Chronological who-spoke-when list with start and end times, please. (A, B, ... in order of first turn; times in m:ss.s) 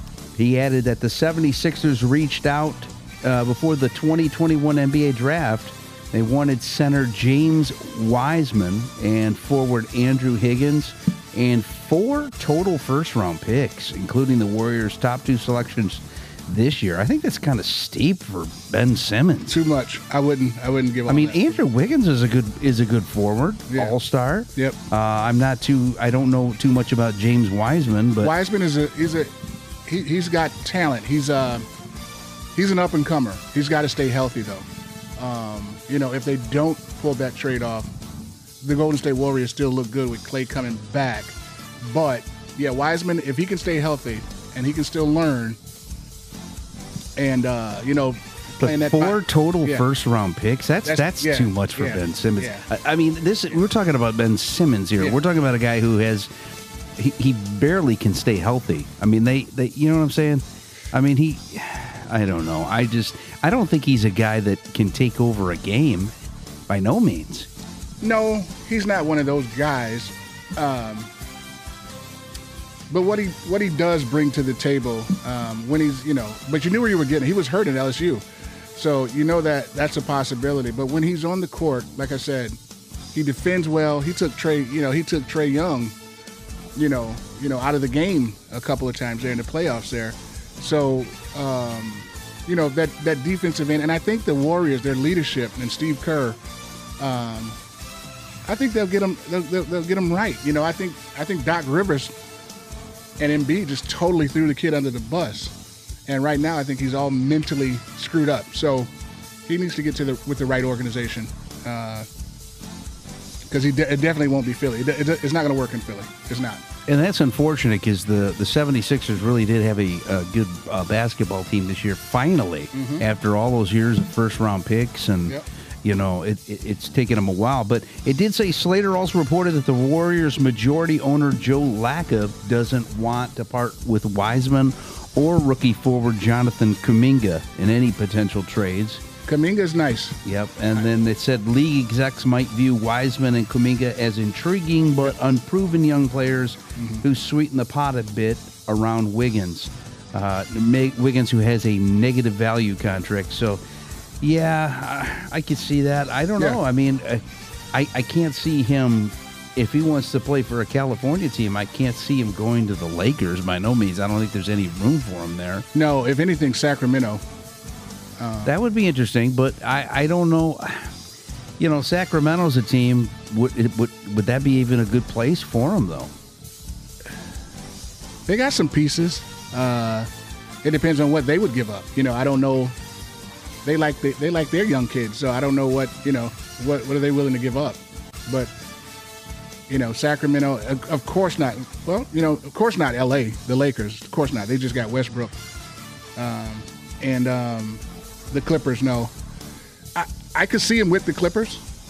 0:00.3-0:19.6 A
0:19.5-0:21.6 B
0:21.1-0:28.3 A
0:23.7-0:24.0 B
0:28.2-0:29.3 B
0:29.8-0:31.7 B
0:32.6-0:37.9 B
0:38.6-0:45.6 B
0:47.2-0:49.8 B
0:48.6-0:56.3 A
0:50.8-0:52.6 B
0:57.0-1:06.1 A
1:06.7-1:07.5 A
1:08.0-1:11.1 B
1:12.9-1:18.2 B
1:18.8-1:22.6 B
1:23.1-1:25.9 B
1:26.8-1:36.4 B
1:37.0-1:37.6 B
1:38.4-1:42.1 B
1:43.2-1:45.5 B
1:46.1-1:48.9 B
1:49.4-1:52.1 B
1:53.5-1:56.6 B
1:56.9-2:19.0 A
2:02.7-2:03.0 B
2:19.3-2:20.2 B
2:20.2-2:33.6 A
2:26.8-2:27.0 B
2:34.2-2:45.7 A
2:45.7-2:47.2 B
2:48.2-2:48.5 B
2:48.4-2:50.9 A
2:51.6-2:56.1 A
2:58.3-3:00.1 B
3:00.6-3:02.7 B
3:03.6-3:08.5 B
3:09.7-3:15.4 B
3:16.2-3:19.1 B
3:20.0-3:21.6 B